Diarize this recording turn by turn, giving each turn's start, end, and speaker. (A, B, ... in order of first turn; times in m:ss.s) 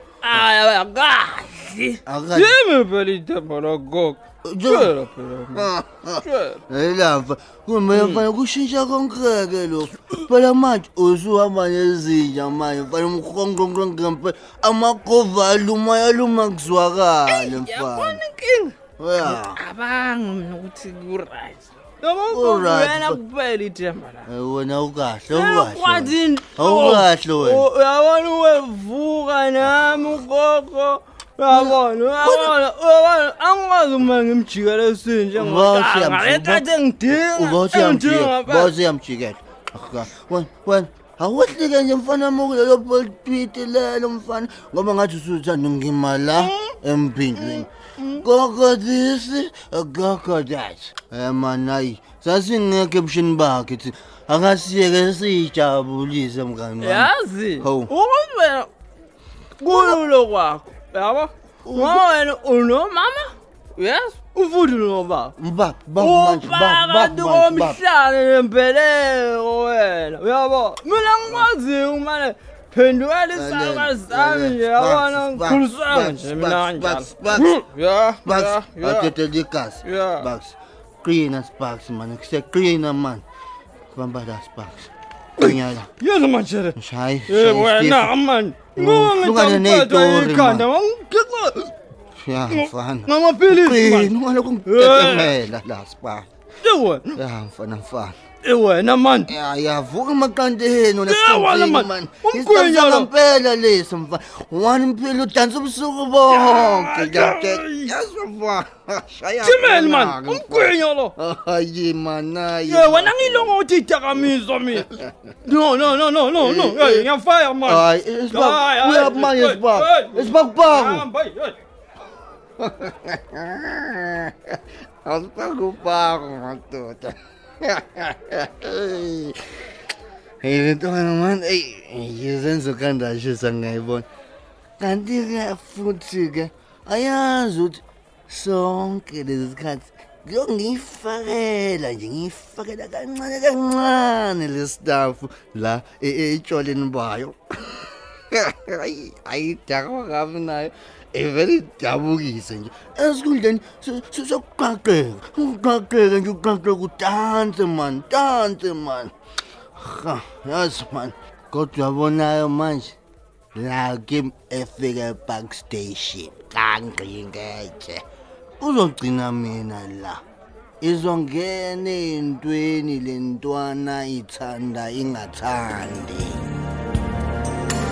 0:00.2-0:06.6 A
0:02.0-0:02.6 B
0:04.4-0:04.9 B
0:05.5-0:18.2 B
0:07.9-0:08.2 A
0:17.3-0:24.3 A
0:19.0-0:19.6 B
0:22.3-0:23.2 B
0:24.2-0:27.7 B
0:25.3-0:38.7 A
0:31.5-0:32.5 B
0:35.3-0:57.9 B
0:46.4-0:46.7 A
0:47.4-0:48.2 A
0:56.8-0:58.7 A
0:59.6-1:05.3 A
0:59.6-1:00.0 B
1:01.6-1:02.0 B
1:05.4-1:07.8 B
1:06.0-1:19.1 A
1:13.3-1:17.5 B
1:18.2-1:23.2 B
1:19.8-1:20.3 A
1:23.9-1:25.9 B
1:25.4-1:31.7 A
1:26.7-1:28.2 B
1:28.7-1:30.7 B
1:32.2-1:36.3 B
1:32.5-1:35.4 A
1:36.6-1:37.2 A
1:37.1-1:38.2 B
1:38.4-1:39.3 A
1:39.3-1:53.6 B
1:41.0-1:43.1 A
1:46.2-1:47.9 A
1:49.4-1:51.1 A
1:52.6-1:54.9 A
1:55.4-2:01.6 A
1:56.4-1:57.1 B
1:57.6-2:01.1 B
2:02.6-2:09.4 B
2:10.4-2:14.0 B
2:14.8-2:39.1 B
2:39.8-2:43.0 B
2:43.5-2:48.0 B
2:48.6-2:50.2 B
2:50.8-2:56.4 B